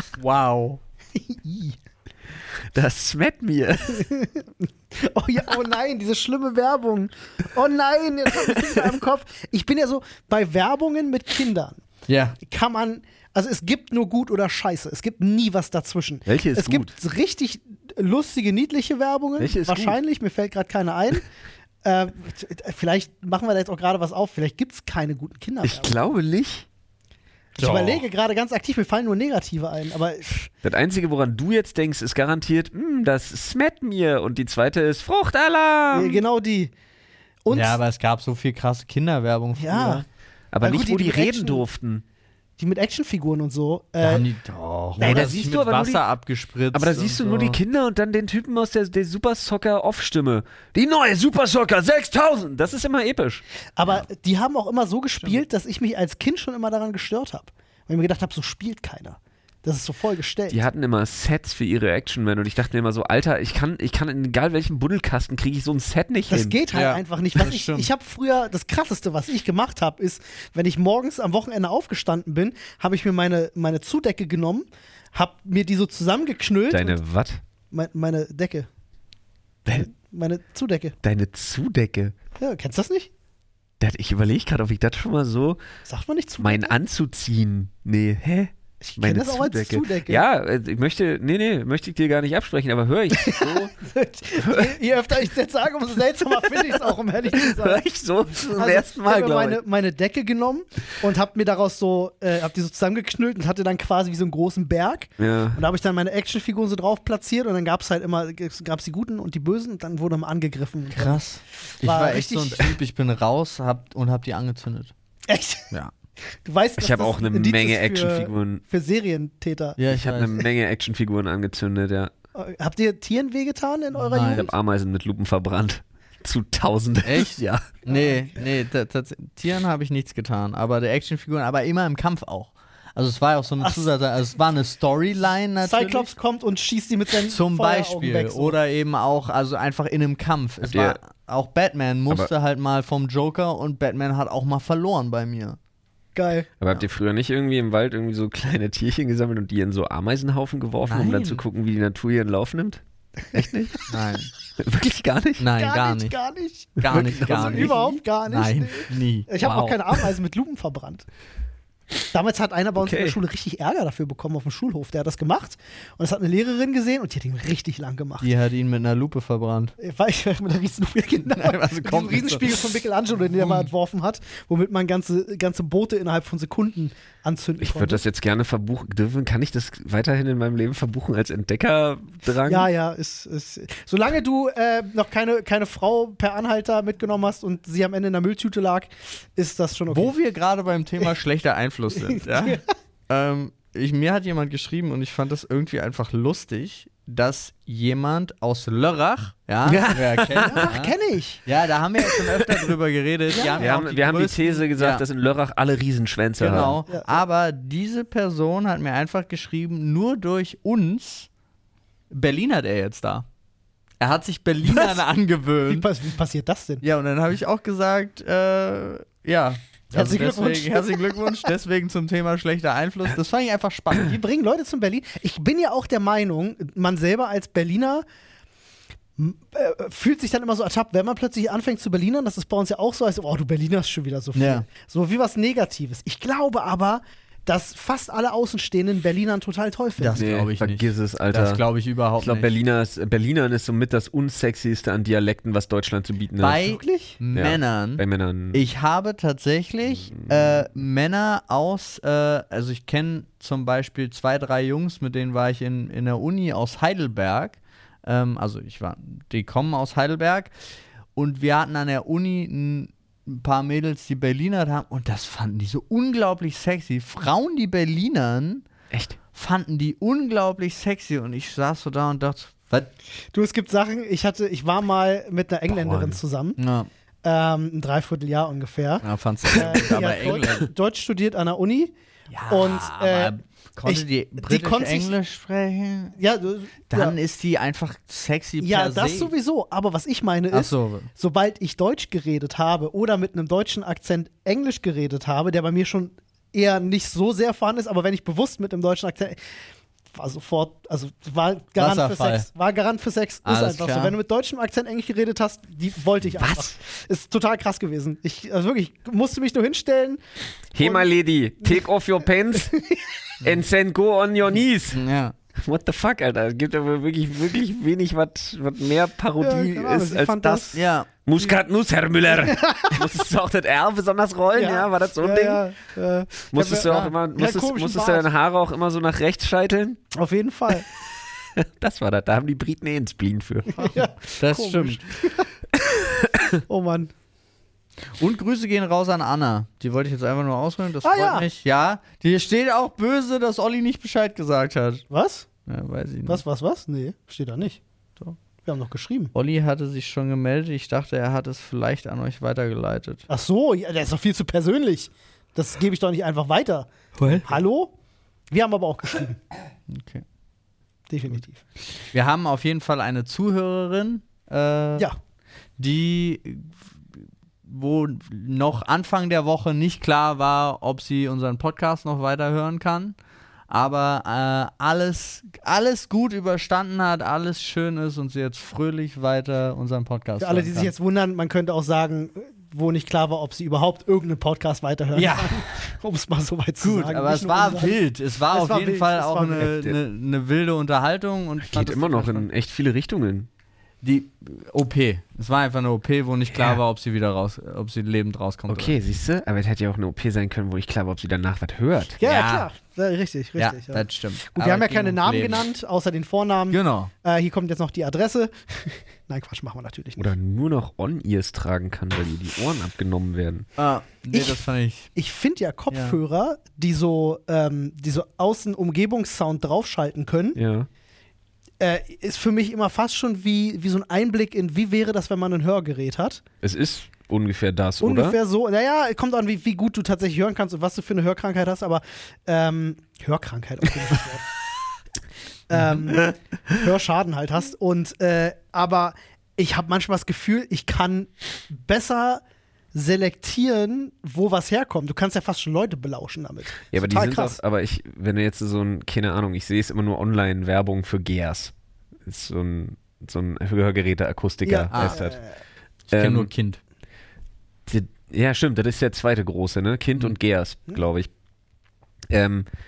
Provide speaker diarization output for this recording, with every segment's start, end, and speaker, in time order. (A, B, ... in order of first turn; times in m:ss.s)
0:00.2-0:00.8 A
0:01.1-0:01.8 B
0:02.7-0:04.0 C
0:03.9-0:11.8 B
0:12.1-0:12.4 A
0:12.4-0:21.3 B
0:16.3-0:16.9 C
0:19.4-0:20.0 C
0:21.8-0:26.0 B
0:25.6-0:26.6 C
0:27.6-0:28.0 C
0:27.6-0:30.5 B
0:30.6-0:36.2 C
0:35.9-0:36.7 B
0:37.4-0:37.8 B
0:37.5-0:40.0 A
0:39.6-0:40.0 B
0:40.5-0:42.0 C
0:40.6-0:41.6 B
0:42.6-0:44.3 B
0:44.0-0:47.6 A
0:45.0-0:45.5 B
0:45.0-0:46.0 C
0:46.7-0:53.4 C
0:53.8-1:00.6 B
1:00.5-1:06.6 C
1:06.3-1:17.0 B
1:06.7-1:07.9 A
1:16.7-1:17.4 C
1:17.7-1:18.7 B
1:19.7-1:20.9 B
1:21.0-1:22.1 C
1:22.4-1:23.1 B
1:23.8-1:25.6 C
1:25.9-1:26.7 B
1:26.4-1:33.7 C
1:28.8-1:30.2 B
1:33.2-1:37.8 B
1:34.4-1:34.8 C
1:36.2-1:39.6 C
1:38.5-1:51.2 B
1:45.2-1:45.6 C
1:50.9-1:54.9 A
1:51.8-1:52.7 B
1:55.3-1:55.7 B
1:56.4-1:59.8 B
1:56.8-1:58.6 C
1:59.8-2:00.4 A
1:59.9-2:02.1 C
2:02.4-2:04.5 B
2:04.0-2:04.5 A
2:04.2-2:07.7 C
2:07.0-2:16.1 A
2:15.6-2:18.6 B
2:17.3-2:25.6 A
2:20.6-2:21.0 C
2:26.1-2:26.5 B
2:26.6-2:33.8 C
2:30.9-2:31.4 A
2:33.9-2:34.3 A
2:34.6-2:35.4 C
2:35.4-2:36.2 A
2:35.5-2:41.0 B
2:36.8-2:39.3 A
2:36.9-2:38.0 C
2:39.4-2:40.0 C
2:42.1-2:48.3 B
2:42.8-2:43.2 C
2:48.2-2:49.8 A
2:49.8-2:58.0 B
2:51.3-2:52.6 A
2:53.4-2:53.7 A
2:57.6-3:02.7 C
3:02.5-3:10.1 B
3:09.9-3:20.9 A
3:12.0-3:12.6 B
3:19.6-3:20.7 C
3:20.4-3:21.4 B
3:21.4-3:25.0 A
3:23.3-3:23.8 B
3:23.6-3:26.8 C
3:26.4-3:31.3 A
3:26.5-3:27.2 B
3:32.1-3:33.3 A
3:34.0-3:35.9 A
3:34.7-3:35.0 B
3:35.7-3:36.8 B
3:36.8-3:44.2 A
3:39.9-3:41.3 B
3:44.0-3:48.0 B
3:49.2-4:00.3 B
3:54.4-3:54.7 A
4:00.0-4:02.5 A
4:00.2-4:01.6 C
4:02.2-4:08.6 C
4:06.4-4:20.5 A
4:21.1-4:28.6 A
4:28.9-4:29.2 C
4:29.3-4:32.9 A
4:33.3-4:36.6 B
4:35.7-4:36.2 C
4:36.6-4:36.9 A
4:37.2-4:41.9 B
4:39.0-4:40.7 A
4:42.3-4:46.2 A
4:42.5-4:45.1 B
4:46.2-4:47.2 B
4:46.9-4:49.3 A
4:48.6-4:59.4 B
4:50.5-4:51.1 A
5:00.1-5:10.2 B
5:01.8-5:02.5 A
5:03.4-5:04.2 A
5:06.3-5:06.7 C
5:10.7-5:12.8 C
5:10.8-5:11.1 B
5:12.5-5:13.0 B
5:13.4-5:15.0 C
5:14.9-5:15.4 A
5:15.6-5:25.6 C
5:19.4-5:20.8 B
5:20.7-5:21.1 A
5:22.4-5:23.0 B
5:24.5-5:28.3 B
5:26.4-5:30.0 C
5:26.8-5:27.1 A
5:30.1-5:30.9 B
5:31.6-5:34.0 C
5:33.7-5:35.5 B
5:34.4-5:35.1 A
5:35.8-5:36.5 C
5:36.7-5:37.1 B
5:38.2-5:45.0 A
5:41.0-5:41.5 B
5:45.1-5:45.4 B
5:45.7-5:46.4 A
5:46.3-5:47.8 B
5:48.6-5:49.3 B
5:49.3-5:53.2 A
5:53.3-5:57.9 B
5:57.2-5:57.6 A
5:58.5-5:59.4 B
5:59.9-6:00.2 A
6:01.1-6:01.6 B
6:02.1-6:05.1 A
6:05.8-6:06.7 A
6:07.6-6:13.2 A
6:13.7-6:20.9 A
6:20.4-6:28.0 B
6:25.1-6:25.6 A
6:26.8-6:32.5 A
6:28.5-6:29.7 B
6:29.6-6:30.0 C
6:31.6-6:33.5 C
6:34.0-6:39.0 A
6:36.5-6:36.8 C
6:38.7-6:42.2 C
6:42.2-6:50.3 B
6:42.2-6:42.7 A
6:43.6-6:45.6 A
6:46.7-6:47.1 A
6:50.2-6:53.7 C
6:53.8-6:55.1 A
6:54.3-6:54.6 B
6:55.1-7:00.6 B
6:55.9-6:56.2 A
7:00.6-7:00.9 C
7:01.8-7:06.4 B
7:06.6-7:08.4 C
7:08.0-7:14.5 B
7:15.7-7:22.4 B
7:22.9-7:27.6 B
7:26.9-7:31.7 C
7:32.3-7:35.4 C
7:34.6-7:35.6 B
7:34.9-7:35.2 A
7:36.1-7:36.5 C
7:36.1-7:36.8 A
7:37.9-7:41.3 C
7:42.3-7:42.7 C